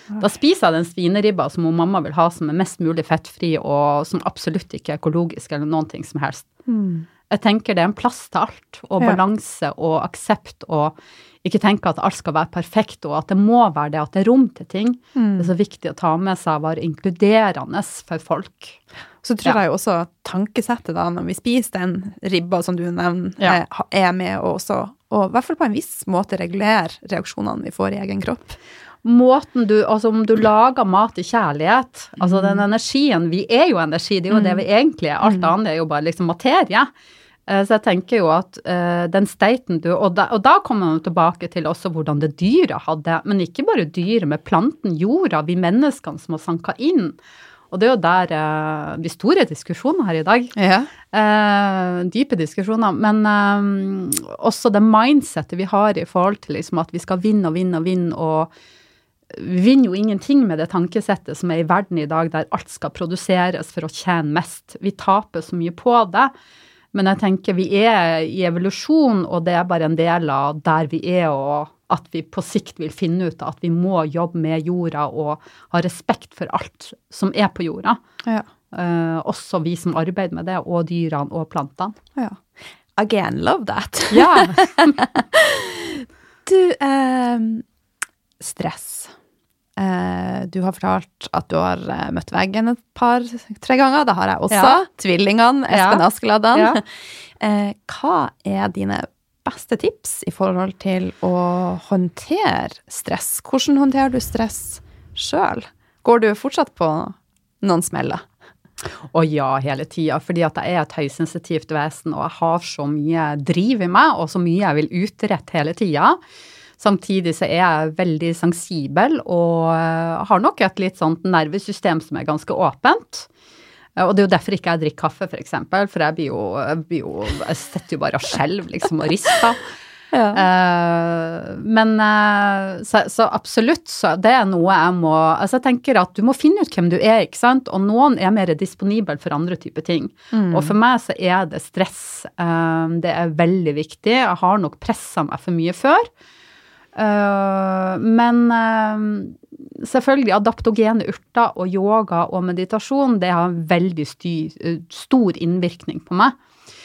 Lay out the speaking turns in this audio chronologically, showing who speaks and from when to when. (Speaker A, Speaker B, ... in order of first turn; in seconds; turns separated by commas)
Speaker A: 0.2-6.5, Speaker B: 6.7-7.1, Speaker A: 7.3-18.8, Speaker B: 15.2-15.5, Speaker B: 19.2-28.6, Speaker A: 29.0-36.9, Speaker B: 32.2-32.6, Speaker B: 34.3-34.6, Speaker B: 35.2-35.5, Speaker A: 37.5-47.2, Speaker A: 47.7-50.5, Speaker B: 50.6-50.9, Speaker A: 51.1-58.5, Speaker A: 59.3-66.3, Speaker A: 66.9-78.0, Speaker A: 78.7-82.0, Speaker B: 82.2-87.7, Speaker A: 84.1-85.0, Speaker B: 88.4-89.1, Speaker B: 89.8-108.3, Speaker A: 94.5-94.8, Speaker A: 95.7-96.8, Speaker A: 109.1-116.2, Speaker A: 116.8-123.3, Speaker A: 124.0-129.7, Speaker B: 130.1-130.4, Speaker A: 130.3-146.1, Speaker B: 140.3-140.7, Speaker A: 146.9-156.3